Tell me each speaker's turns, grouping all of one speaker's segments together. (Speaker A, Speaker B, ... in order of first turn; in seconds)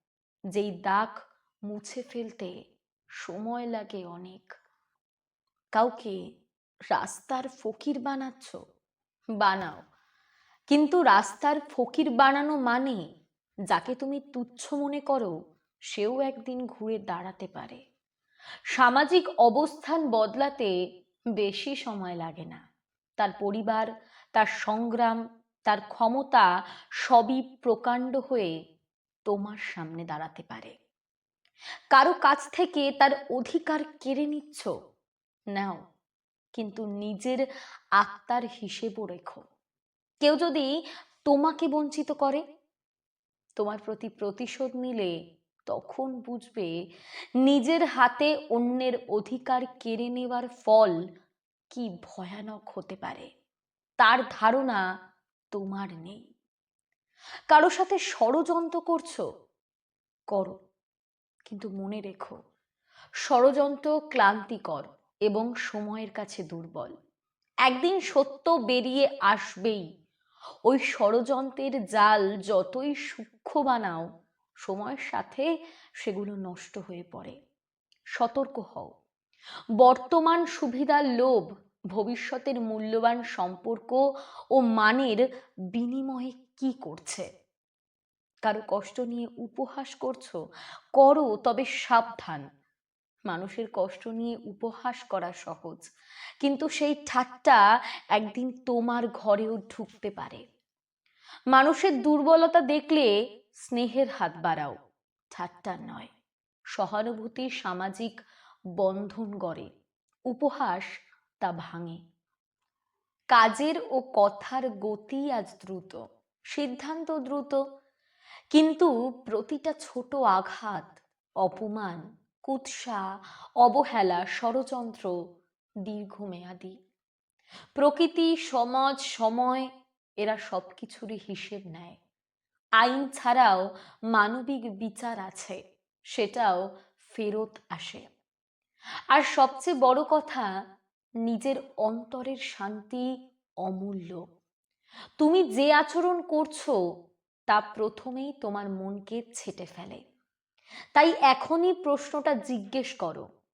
Speaker A: 0.5-2.5, 3.2-4.5, 5.8-6.2, 6.9-8.6, 9.4-9.8, 10.7-13.0, 13.7-15.3, 15.9-17.8, 18.8-20.7, 21.4-22.6, 23.2-26.5, 27.0-28.5, 29.3-30.7, 31.9-34.7, 35.5-35.8, 36.6-37.4, 38.0-39.4, 40.2-40.7, 41.3-42.4, 43.6-45.1, 45.7-46.7, 47.5-51.0, 51.7-53.3, 54.0-54.8, 55.5-56.3, 57.5-59.2, 60.3-60.6, 61.5-62.4, 63.3-66.9, 67.7-69.9, 70.7-74.0, 74.7-75.5, 76.0-77.4, 78.2-78.9, 79.8-84.0, 84.5-85.2, 85.7-87.3, 88.5-90.4, 91.0-92.5, 93.3-95.8, 96.4-97.6, 98.2-100.4, 101.5-103.1, 103.7-104.8, 105.4-106.1, 106.8-108.1, 108.8-109.7, 110.3-110.9, 111.4-112.0, 113.3-116.0, 116.5-117.6, 118.5-123.0, 123.6-125.1, 125.9-126.8, 127.8-129.7, 130.2-132.0, 132.8-135.6, 136.2-136.6, 137.1-138.0, 139.1-140.5, 141.3-143.1, 143.7-144.2, 145.2-146.7, 147.5-150.0, 150.9-153.2